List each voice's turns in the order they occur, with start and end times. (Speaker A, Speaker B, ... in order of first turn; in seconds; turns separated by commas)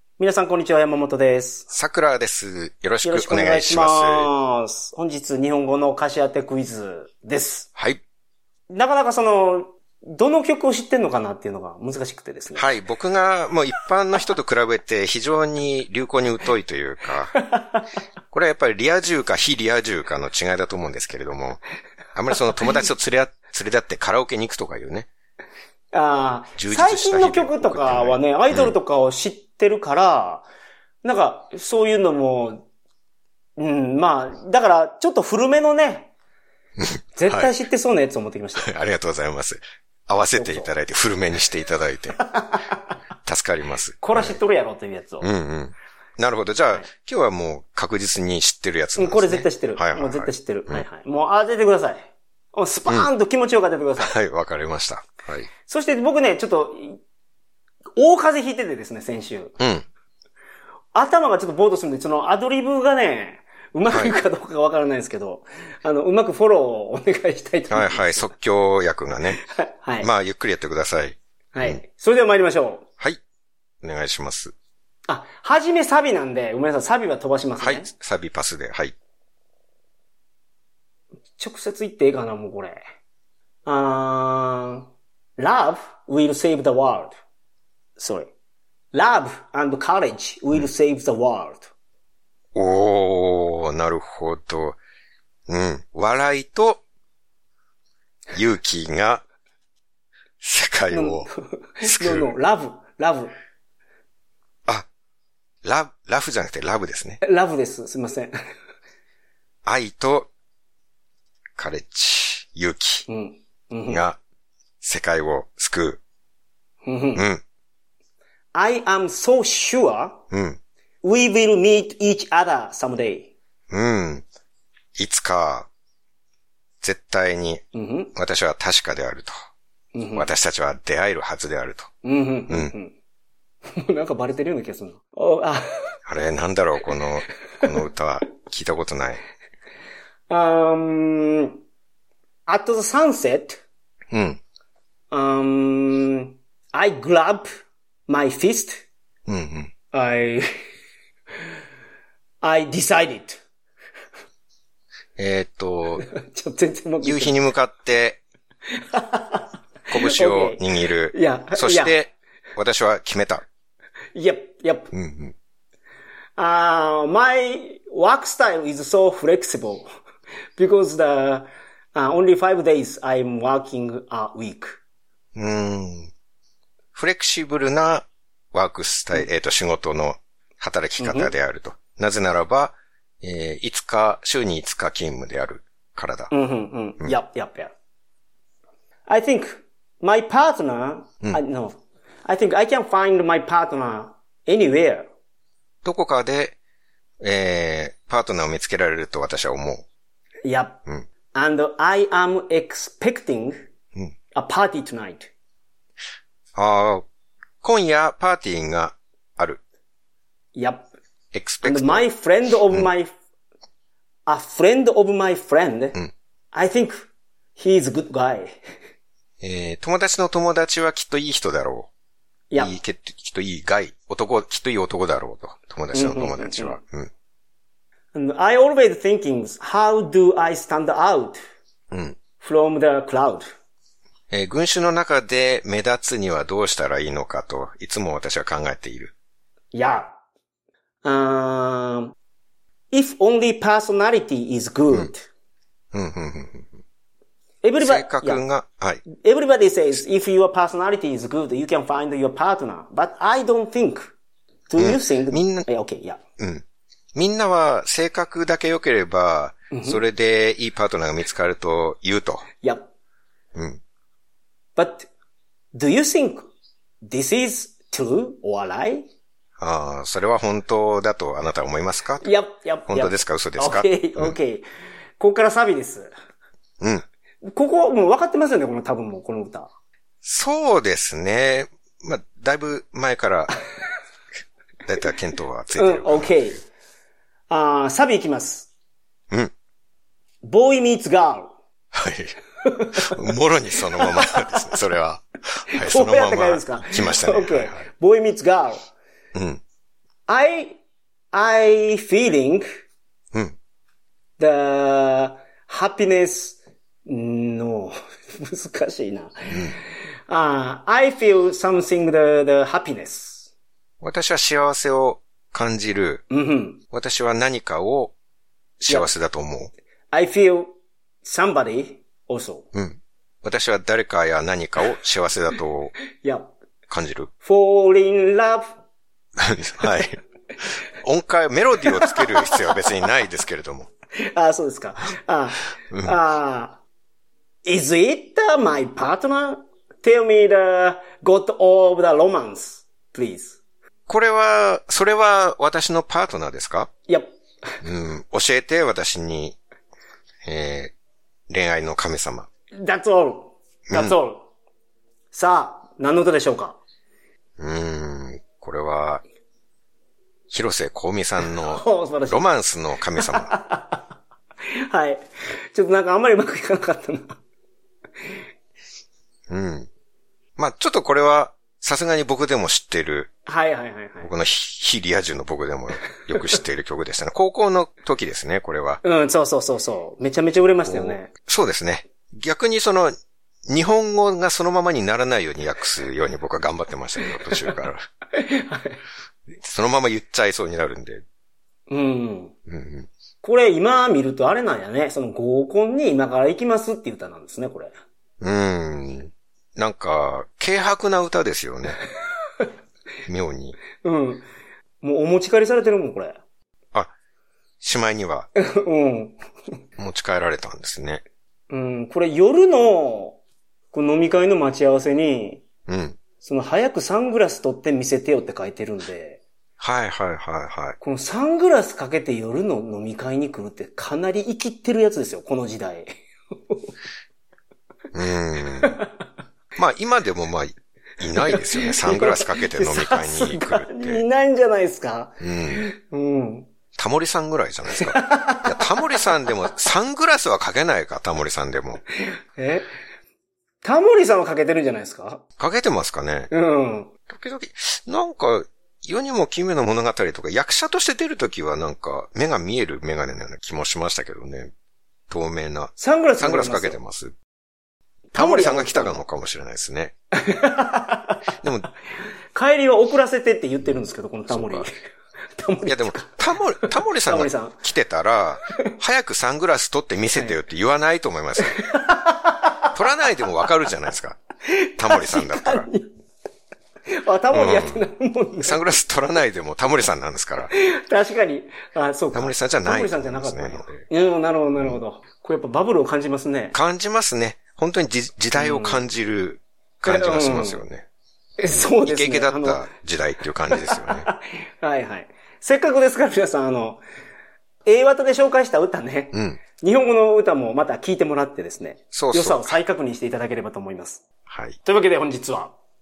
Speaker A: 0.2-1.7, Speaker B: 1.7-4.3, Speaker A: 3.0-7.7, Speaker B: 7.8-8.0, Speaker A: 8.7-12.7, Speaker B: 12.6-17.4, Speaker A: 17.4-17.9, Speaker B: 18.3-21.6, Speaker B: 22.1-25.1, Speaker A: 25.9-30.5, Speaker B: 26.6-28.8, Speaker A: 31.0-32.6, Speaker A: 33.6-36.1, Speaker B: 36.8-37.5, Speaker A: 37.2-38.7, Speaker B: 38.6-42.2, Speaker A: 40.3-40.7, Speaker A: 42.2-42.8, Speaker B: 43.3-44.4, Speaker A: 44.0-45.3, Speaker B: 45.2-50.9, Speaker A: 49.0-54.1, Speaker B: 54.0-55.5, Speaker A: 55.7-57.0, Speaker A: 58.0-59.6, Speaker B: 59.6-59.9, Speaker A: 60.9-68.3, Speaker B: 63.9-64.1, Speaker B: 67.7-69.4, Speaker A: 69.4-70.1, Speaker B: 70.0-71.8, Speaker A: 71.5-72.8, Speaker B: 73.8-74.5, Speaker A: 75.1-77.9, Speaker B: 77.6-79.0, Speaker A: 81.4-82.8, Speaker A: 83.7-87.2, Speaker A: 88.0-88.3, Speaker A: 88.9-91.7, Speaker B: 92.5-94.8, Speaker B: 95.5-96.8, Speaker B: 98.3-99.2, Speaker B: 100.4-101.3, Speaker A: 100.9-103.3, Speaker B: 101.8-102.3, Speaker B: 105.6-107.2, Speaker A: 107.2-108.3, Speaker B: 109.7-110.3, Speaker B: 111.6-113.1, Speaker A: 113.1-114.0, Speaker B: 113.9-114.2, Speaker B: 114.8-116.0, Speaker A: 116.8-117.2, Speaker B: 117.2-117.4, Speaker A: 118.5-120.2, Speaker B: 120.3-120.6, Speaker A: 121.0-123.3, Speaker B: 123.7-124.3, Speaker B: 125.0-125.7, Speaker B: 126.8-127.6, Speaker A: 127.7-128.1, Speaker B: 128.2-129.3, Speaker A: 129.9-130.3, Speaker B: 130.1-131.9, Speaker A: 132.0-132.9, Speaker A: 133.8-135.9, Speaker B: 136.1-139.2, Speaker A: 140.3-141.6, Speaker A: 142.5-143.6, Speaker B: 144.1-144.4, Speaker A: 145.1-147.5, Speaker A: 148.1-148.8, Speaker B: 149.3-149.7, Speaker A: 149.9-150.5, Speaker A: 152.4-153.4, Speaker B: 155.2-156.1, Speaker A: 156.0-157.4, Speaker B: 157.0-158.2, Speaker A: 158.8-162.0, Speaker B: 159.9-163.4, Speaker A: 164.1-164.9, Speaker B: 164.9-165.3, Speaker A: 166.4-169.9, Speaker A: 170.6-174.8, Speaker B: 175.3-176.1, Speaker B: 176.9-186.3, Speaker A: 181.0-181.3, Speaker A: 186.3-187.7, Speaker A: 189.1-195.1, Speaker B: 195.8-196.6, Speaker B: 197.2-199.8, Speaker A: 200.4-200.8, Speaker A: 201.3-203.6, Speaker A: 204.3-205.3, Speaker B: 206.6-207.1, Speaker B: 207.6-209.6, Speaker A: 210.6-210.9, Speaker B: 211.3-212.1, Speaker A: 211.6-213.1, Speaker A: 214.3-216.0, Speaker A: 216.5-218.6, Speaker B: 219.4-221.9, Speaker A: 222.5-222.8, Speaker B: 222.6-227.1, Speaker A: 225.9-226.8, Speaker A: 228.1-231.4, Speaker B: 231.9-232.2, Speaker A: 232.4-233.5, Speaker B: 234.3-239.1, Speaker A: 239.7-240.2, Speaker A: 241.0-242.2, Speaker A: 242.9-245.2, Speaker B: 245.9-246.8, Speaker A: 247.6-248.4, Speaker B: 247.8-249.1, Speaker A: 249.1-254.2, Speaker A: 254.7-256.2, Speaker B: 254.8-255.7, Speaker B: 256.4-256.6, Speaker B: 257.1-262.5, Speaker A: 259.7-260.0, Speaker A: 262.6-262.9, Speaker B: 263.6-263.8, Speaker A: 264.8-265.1, Speaker A: 265.7-266.5, Speaker A: 267.1-269.1, Speaker B: 269.6-272.3, Speaker A: 272.2-274.7, Speaker B: 272.9-274.4, Speaker A: 275.2-276.1, Speaker B: 276.8-277.1, Speaker A: 277.4-279.7, Speaker B: 280.2-283.6, Speaker B: 284.9-286.4, Speaker A: 285.8-286.6, Speaker A: 287.5-288.7, Speaker A: 290.4-291.5, Speaker B: 291.9-292.4, Speaker A: 292.6-293.1, Speaker B: 293.0-297.9, Speaker A: 294.0-294.5, Speaker A: 295.8-298.9, Speaker B: 299.3-299.6, Speaker A: 300.3-300.8, Speaker A: 301.3-302.7, Speaker A: 304.4-313.5, Speaker B: 314.0-316.2, Speaker A: 316.3-316.8, Speaker B: 316.9-318.1, Speaker B: 318.8-319.7, Speaker A: 320.1-320.7, Speaker A: 321.2-322.7, Speaker B: 322.7-325.9, Speaker A: 326.2-326.5, Speaker B: 326.9-327.3, Speaker A: 327.4-328.7, Speaker B: 329.4-330.2, Speaker B: 331.0-333.9, Speaker A: 331.9-332.7, Speaker A: 334.2-336.8, Speaker B: 335.9-336.2, Speaker A: 337.6-343.6, Speaker B: 344.1-346.9, Speaker B: 347.8-349.6, Speaker B: 350.4-350.9, Speaker B: 351.5-352.5, Speaker A: 352.8-354.5, Speaker B: 353.9-354.2, Speaker A: 355.3-356.8, Speaker B: 357.6-359.2, Speaker B: 360.5-363.6, Speaker A: 361.4-362.5, Speaker A: 363.2-364.1, Speaker A: 364.9-367.4, Speaker B: 369.5-369.9, Speaker B: 370.6-373.3, Speaker A: 373.5-374.3, Speaker B: 374.2-379.0, Speaker A: 379.0-381.3, Speaker B: 380.8-383.1, Speaker B: 383.7-388.0, Speaker A: 387.4-387.7, Speaker A: 388.3-389.0, Speaker B: 389.6-391.2, Speaker A: 391.9-392.6, Speaker B: 392.7-393.1, Speaker A: 393.4-397.9, Speaker B: 398.4-402.0, Speaker B: 403.3-403.8, Speaker A: 404.0-404.5, Speaker A: 405.0-406.4, Speaker B: 407.8-408.5, Speaker A: 408.6-409.4, Speaker B: 410.0-411.2, Speaker A: 411.7-413.4, Speaker A: 413.9-415.6, Speaker B: 415.9-416.2, Speaker A: 416.4-419.4, Speaker B: 419.8-421.0, Speaker A: 421.0-426.1, Speaker B: 428.1-429.0, Speaker B: 429.8-434.2, Speaker A: 431.5-436.7, Speaker B: 435.4-435.8, Speaker B: 436.9-442.0, Speaker A: 437.9-439.3, Speaker A: 442.2-442.9, Speaker A: 443.8-445.4, Speaker B: 445.6-446.5, Speaker A: 446.5-447.1, Speaker B: 447.3-454.7, Speaker B: 455.3-457.3, Speaker A: 456.0-457.0, Speaker A: 458.3-459.2, Speaker B: 458.4-460.1, Speaker A: 460.4-461.4, Speaker B: 461.6-461.9, Speaker A: 462.5-465.0, Speaker B: 464.5-464.9, Speaker A: 465.6-467.8, Speaker B: 465.9-471.8, Speaker A: 471.6-473.2, Speaker B: 472.9-474.4, Speaker A: 474.9-476.1, Speaker B: 475.0-475.9, Speaker A: 477.2-478.9, Speaker B: 477.5-478.1, Speaker B: 478.6-480.7, Speaker A: 480.7-486.8, Speaker B: 482.3-484.1, Speaker B: 486.7-491.1, Speaker A: 488.6-489.1, Speaker A: 490.1-490.8, Speaker A: 491.6-492.9, Speaker B: 491.7-494.3, Speaker A: 493.7-497.0, Speaker A: 497.9-504.2, Speaker B: 499.3-499.6, Speaker B: 502.1-502.8, Speaker B: 504.5-504.8, Speaker A: 504.8-505.7